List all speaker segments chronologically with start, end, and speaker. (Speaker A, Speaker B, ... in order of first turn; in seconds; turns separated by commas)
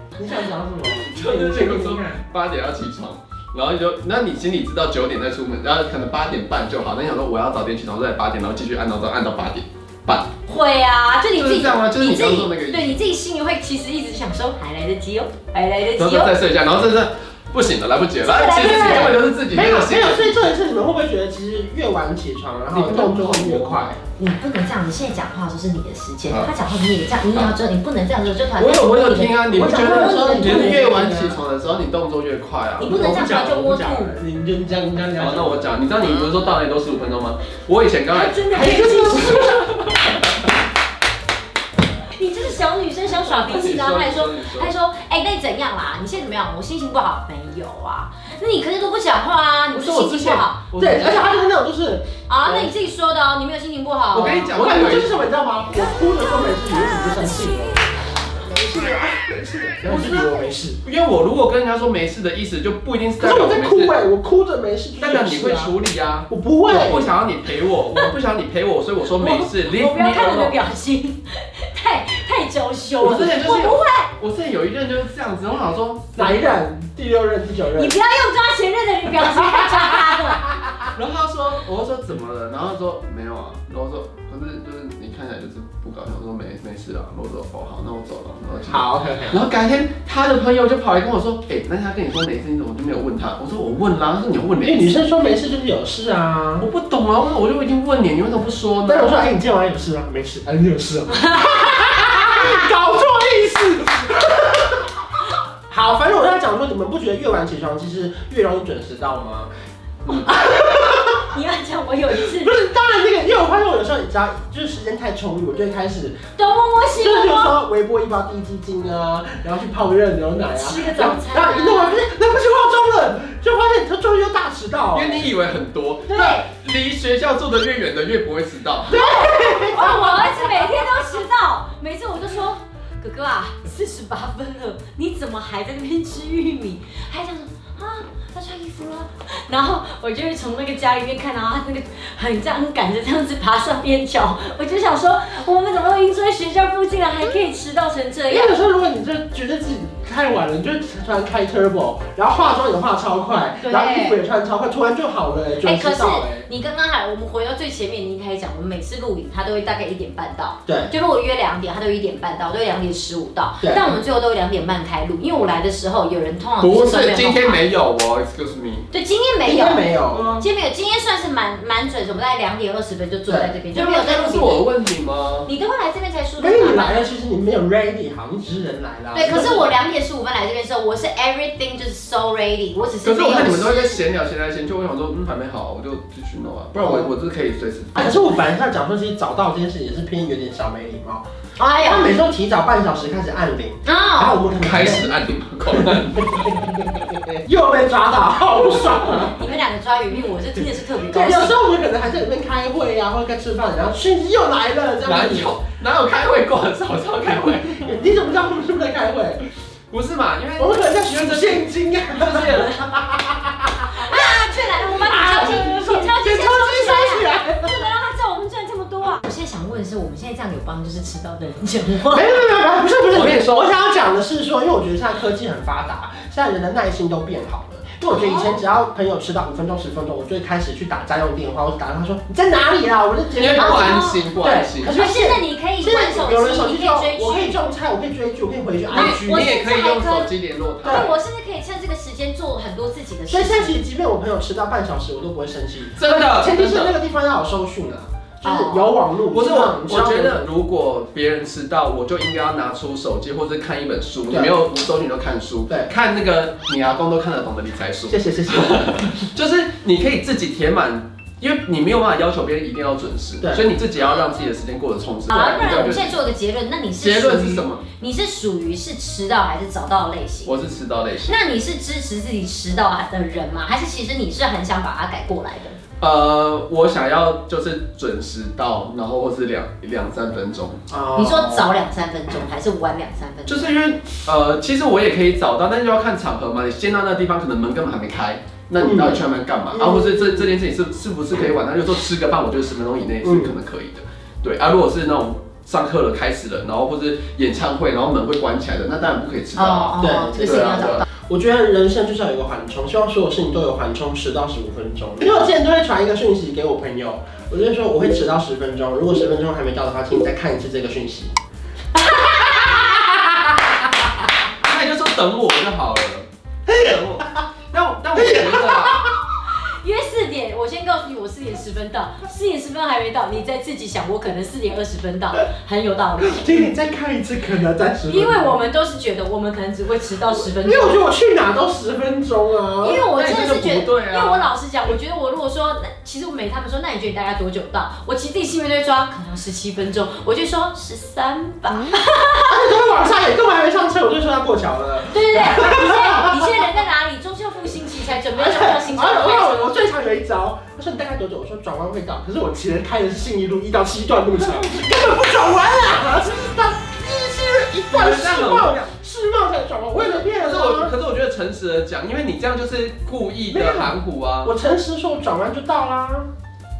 Speaker A: 0.1-2.2, Speaker B: 0.9-10.3, Speaker C: 10.5-16.3, Speaker B: 11.3-13.0, Speaker B: 16.0-20.4, Speaker C: 18.2-19.2, Speaker A: 18.7-24.0, Speaker B: 22.7-23.8, Speaker C: 24.2-30.9, Speaker B: 28.6-33.3, Speaker A: 29.5-31.4, Speaker C: 32.8-34.1, Speaker A: 32.8-35.8, Speaker B: 35.2-38.9, Speaker C: 38.1-40.0, Speaker A: 38.5-39.6, Speaker C: 42.1-50.7, Speaker B: 43.3-44.7, Speaker B: 49.7-51.4, Speaker A: 50.8-52.7, Speaker C: 52.3-54.5, Speaker B: 54.1-55.1, Speaker A: 54.5-57.8, Speaker A: 58.4-60.8, Speaker B: 59.8-60.3, Speaker B: 60.8-64.0, Speaker A: 63.2-65.7, Speaker B: 65.0-70.6, Speaker A: 66.3-67.1, Speaker C: 69.2-74.1, Speaker B: 73.0-76.4, Speaker A: 76.2-78.0, Speaker C: 77.8-80.5, Speaker A: 79.2-80.7, Speaker B: 80.9-95.0, Speaker A: 88.7-89.4, Speaker A: 94.6-96.7, Speaker B: 96.6-99.3, Speaker A: 98.8-105.0, Speaker C: 101.1-102.5, Speaker A: 105.7-109.5, Speaker A: 110.1-111.3, Speaker C: 111.2-112.6, Speaker A: 112.1-116.2, Speaker C: 116.4-117.5, Speaker A: 117.0-125.3, Speaker C: 120.5-122.0, Speaker B: 124.9-128.9, Speaker C: 126.1-126.5, Speaker A: 128.9-130.7, Speaker C: 128.9-148.6, Speaker A: 148.3-156.5, Speaker C: 153.6-154.2, Speaker C: 155.6-167.6, Speaker A: 160.7-160.9, Speaker A: 163.6-164.0, Speaker B: 166.6-168.9, Speaker C: 168.9-174.6, Speaker A: 169.4-170.4, Speaker A: 173.3-173.5, Speaker B: 173.7-175.5, Speaker C: 175.4-177.1, Speaker A: 176.4-179.7, Speaker C: 179.1-184.0, Speaker B: 183.0-188.0, Speaker A: 186.8-187.1, Speaker A: 187.9-195.1, Speaker C: 191.6-192.1, Speaker C: 193.8-194.4, Speaker B: 194.6-196.6, Speaker A: 195.7-199.4, Speaker C: 199.1-201.6, Speaker A: 201.1-205.5, Speaker B: 205.0-208.1, Speaker A: 207.7-209.4, Speaker B: 209.9-212.8, Speaker A: 210.6-214.2, Speaker C: 213.9-222.4, Speaker A: 214.9-217.8, Speaker A: 222.1-239.4, Speaker B: 223.1-223.5, Speaker C: 228.1-228.6, Speaker B: 233.3-235.0, Speaker C: 233.6-234.3, Speaker C: 234.8-237.6, Speaker C: 238.9-240.3, Speaker B: 238.9-241.2, Speaker A: 240.8-241.1, Speaker C: 240.8-243.8, Speaker A: 243.3-250.4, Speaker B: 245.9-246.9, Speaker C: 248.4-249.0, Speaker B: 249.3-266.2, Speaker A: 258.1-259.1, Speaker A: 263.4-263.7, Speaker C: 265.3-270.6, Speaker B: 267.0-267.8, Speaker B: 270.4-271.4, Speaker C: 271.2-275.8, Speaker B: 276.0-280.8, Speaker A: 280.9-281.7, Speaker C: 281.1-283.8, Speaker B: 283.5-301.0, Speaker A: 288.8-289.2, Speaker A: 289.7-290.4, Speaker A: 293.2-293.5, Speaker C: 299.6-301.1, Speaker A: 300.0-311.3, Speaker C: 311.9-313.1, Speaker B: 314.6-319.0, Speaker A: 318.2-318.8, Speaker C: 319.6-326.7, Speaker A: 326.2-328.5, Speaker C: 328.1-331.0, Speaker A: 330.6-333.1, Speaker C: 332.8-342.6, Speaker B: 333.1-334.5, Speaker A: 342.4-346.5, Speaker C: 345.1-349.8, Speaker A: 348.4-360.9, Speaker B: 357.9-358.9, Speaker B: 359.9-364.5, Speaker A: 363.5-366.3